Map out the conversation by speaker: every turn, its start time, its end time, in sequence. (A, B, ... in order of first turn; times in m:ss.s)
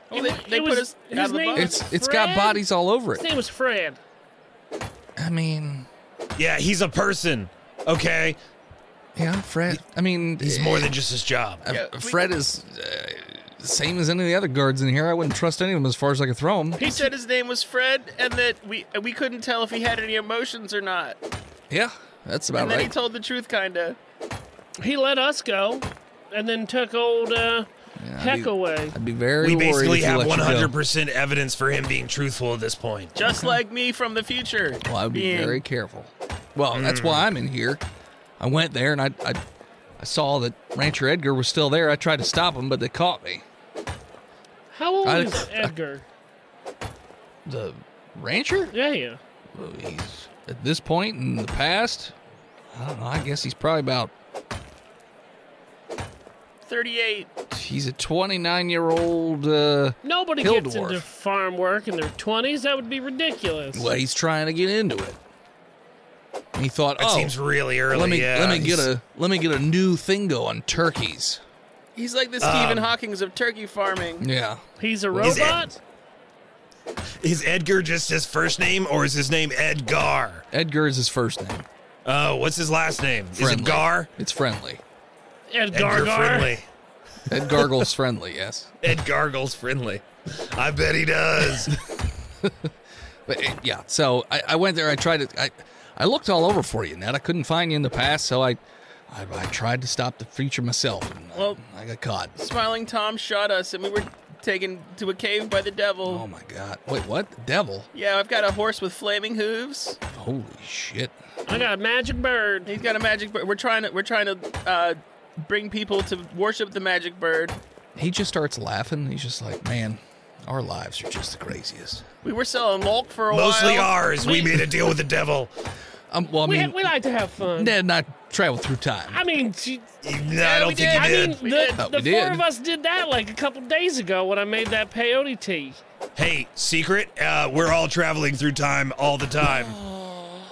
0:00.1-0:01.8 A
0:00.1-0:02.6 B
0:01.5-0:03.2 C
0:03.1-0:04.0 B
0:05.2-0:05.9 C
0:06.4-0:08.4 D
0:09.2-0:11.0 C
0:10.4-0:11.6 D
0:11.6-0:16.9 C
0:11.6-0:12.3 A
0:16.8-0:17.1 B
0:16.8-0:21.2 A
0:21.7-0:22.9 C
0:22.5-0:24.0 A
0:24.8-0:27.7 B
0:28.0-0:30.7 C
0:28.2-0:29.0 B
0:29.4-0:33.1 D
0:33.1-0:35.6 A
0:34.8-0:37.8 C
0:36.7-0:37.2 D
0:38.4-0:39.4 C
0:40.0-0:43.4 C
0:44.7-0:46.0 B
0:45.0-0:45.7 C
0:47.4-0:48.7 C
0:48.7-0:49.2 B
0:49.5-0:52.1 C
0:52.7-0:54.1 C
0:56.6-0:57.3 A
0:57.5-1:01.0 C
1:00.0-1:03.9 B
1:03.7-1:05.2 C
1:06.5-1:07.3 C
1:07.0-1:08.8 D
1:07.9-1:11.4 C
1:11.9-1:14.2 A
1:12.4-1:12.9 D
1:14.2-1:15.6 C
1:14.8-1:15.7 B
1:15.2-1:15.6 D
1:17.2-1:20.4 D
1:20.5-1:21.7 C
1:22.0-1:24.1 D
1:23.3-1:24.8 C
1:25.5-1:26.6 B
1:25.7-1:26.6 D
1:27.3-1:28.8 C
1:28.8-1:31.7 D
1:32.4-1:32.7 C
1:33.3-1:42.3 C
1:41.3-1:41.6 A
1:42.4-1:46.2 A
1:46.0-1:47.9 C
1:47.9-1:50.0 A
1:50.1-1:51.1 C
1:51.5-1:52.7 B
1:52.7-1:57.6 A
1:58.0-2:02.0 C
2:02.2-2:04.8 A
2:03.3-2:05.5 D
2:06.1-2:06.9 C
2:06.4-2:07.8 B
2:07.5-2:09.2 C
2:09.1-2:09.9 B
2:10.0-2:11.4 D
2:10.4-2:11.8 A
2:10.4-2:15.8 B
2:11.8-2:12.4 C
2:16.2-2:19.8 D